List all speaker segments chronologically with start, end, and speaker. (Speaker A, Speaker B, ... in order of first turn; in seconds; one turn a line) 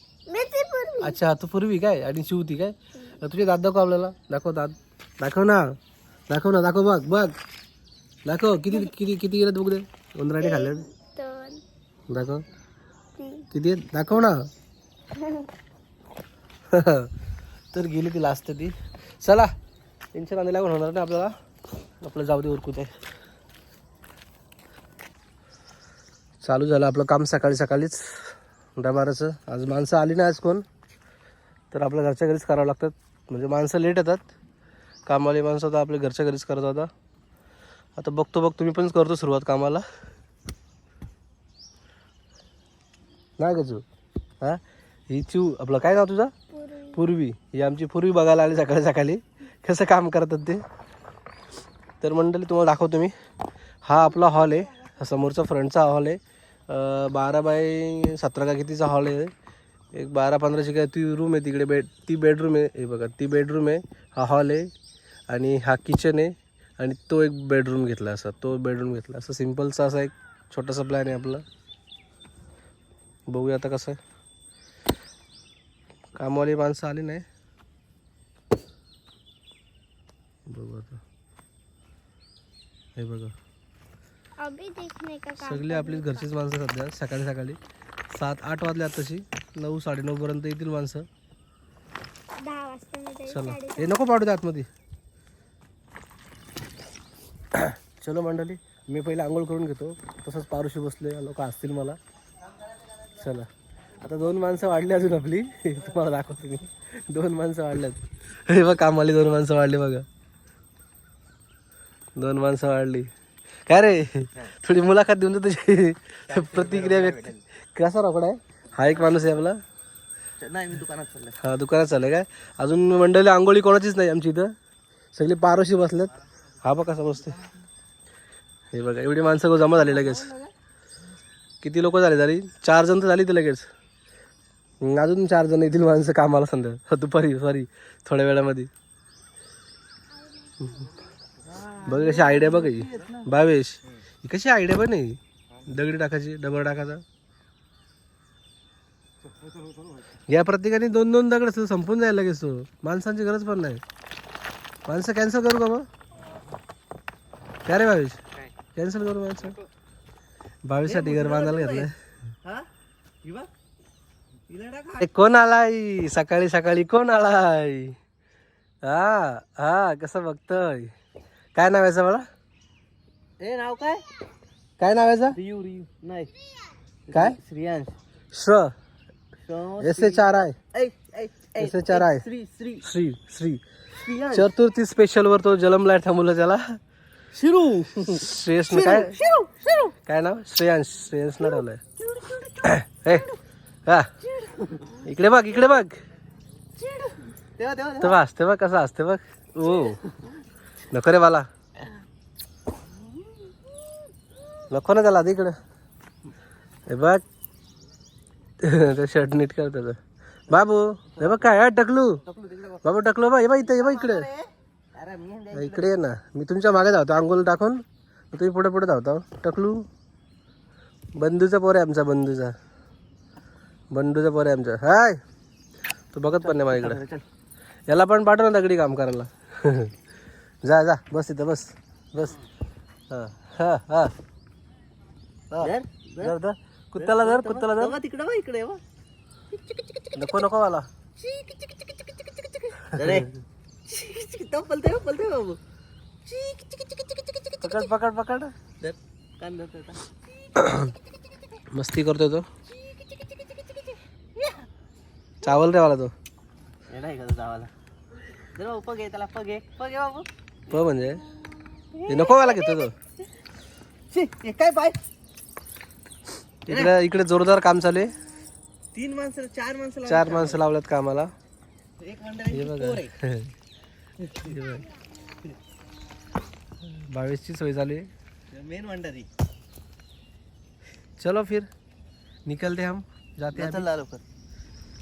Speaker A: 0.3-1.2
Speaker B: 1.0-5.8
Speaker B: 6.3-7.3
Speaker B: 8.3-10.9
Speaker A: 10.4-11.6
Speaker B: 12.1-12.4
Speaker A: 13.2-13.5
Speaker B: 13.5-14.5
Speaker A: 15.2-15.5
Speaker B: 16.7-17.1
Speaker B: 17.7-19.5
Speaker B: 20.1-21.3
Speaker B: 22.0-22.9
Speaker B: 26.4-30.6
Speaker B: 31.7-34.2
Speaker B: 35.1-36.9
Speaker B: 38.0-39.8
Speaker B: 43.4-43.8
Speaker B: 44.4-46.4
Speaker A: 46.5-47.0
Speaker B: 46.9-50.6
Speaker B: 52.0-53.1
Speaker B: 53.8-59.3
Speaker B: 59.9-64.7
Speaker B: 65.3-71.4
Speaker B: 73.3-74.0
Speaker B: 76.2-77.2
Speaker B: 80.5-81.0
Speaker B: 83.0-83.3
Speaker A: 84.4-86.3
Speaker B: 85.4-87.6
Speaker B: 88.1-91.1
Speaker A: 92.4-94.0
Speaker B: 93.3-94.7
Speaker B: 97.5-102.0
Speaker B: 103.2-103.5
Speaker B: 104.0-110.1
Speaker B: 112.2-113.1
Speaker B: 113.7-119.6
Speaker C: 116.3-117.4
Speaker C: 120.4-121.4
Speaker B: 121.4-124.5
Speaker B: 125.1-127.4
Speaker B: 128.7-130.3
Speaker C: 129.8-130.5
Speaker B: 131.6-133.7
Speaker B: 134.8-138.7
Speaker C: 141.5-143.3
Speaker B: 141.8-147.0
Speaker B: 150.3-153.8
Speaker B: 154.9-155.9
Speaker B: 157.7-158.2
Speaker B: 158.7-159.6
Speaker B: 160.7-161.9
Speaker C: 160.8-161.9
Speaker C: 163.2-163.5
Speaker C: 164.5-165.1
Speaker B: 165.0-168.0
Speaker B: 168.8-170.9
Speaker B: 171.6-172.3
Speaker C: 173.4-174.0
Speaker B: 174.8-175.4
Speaker C: 175.3-176.3
Speaker C: 177.1-178.0
Speaker B: 178.3-178.7
Speaker C: 179.4-182.8
Speaker B: 179.8-180.6
Speaker B: 181.6-182.2
Speaker B: 182.8-183.6
Speaker C: 184.0-184.5
Speaker B: 184.3-186.8
Speaker C: 187.3-190.0
Speaker B: 188.1-189.2
Speaker B: 190.1-191.8
Speaker C: 191.6-193.4
Speaker B: 192.6-193.3
Speaker B: 193.9-194.1
Speaker C: 194.2-195.0
Speaker B: 195.0-196.0
Speaker C: 196.8-198.2
Speaker B: 198.0-200.0
Speaker C: 199.6-200.3
Speaker B: 200.9-201.5
Speaker B: 204.7-205.6
Speaker B: 206.9-207.2
Speaker B: 208.6-212.2
Speaker C: 211.1-211.5
Speaker C: 212.2-212.8
Speaker B: 212.8-214.3
Speaker C: 213.7-215.9
Speaker B: 215.5-219.9
Speaker B: 221.2-222.6
Speaker B: 223.9-225.2
Speaker B: 226.1-227.0
Speaker C: 226.4-227.2
Speaker B: 227.9-229.9
Speaker B: 230.6-232.4
Speaker B: 233.1-234.1
Speaker B: 235.5-238.0
Speaker C: 235.6-236.4
Speaker C: 237.0-238.8
Speaker C: 239.5-240.4
Speaker B: 240.2-240.9
Speaker C: 241.2-243.3
Speaker B: 243.0-243.3
Speaker C: 243.9-245.6
Speaker C: 246.2-247.8
Speaker B: 247.6-248.5
Speaker C: 248.8-250.9
Speaker B: 250.6-250.9
Speaker B: 251.7-252.5
Speaker C: 252.7-254.6
Speaker B: 255.4-256.1
Speaker C: 256.9-257.7
Speaker C: 258.6-260.3
Speaker B: 260.7-261.2
Speaker C: 261.9-262.9
Speaker B: 262.1-262.9
Speaker C: 264.1-265.0
Speaker B: 266.7-268.1
Speaker C: 266.7-266.9
Speaker C: 268.9-270.6
Speaker B: 270.1-271.3
Speaker C: 272.0-273.1
Speaker B: 272.5-273.5
Speaker C: 274.2-274.6
Speaker B: 274.4-274.9
Speaker B: 276.8-278.1
Speaker C: 278.5-279.3
Speaker B: 281.2-281.7
Speaker B: 282.5-283.9
Speaker C: 283.5-284.2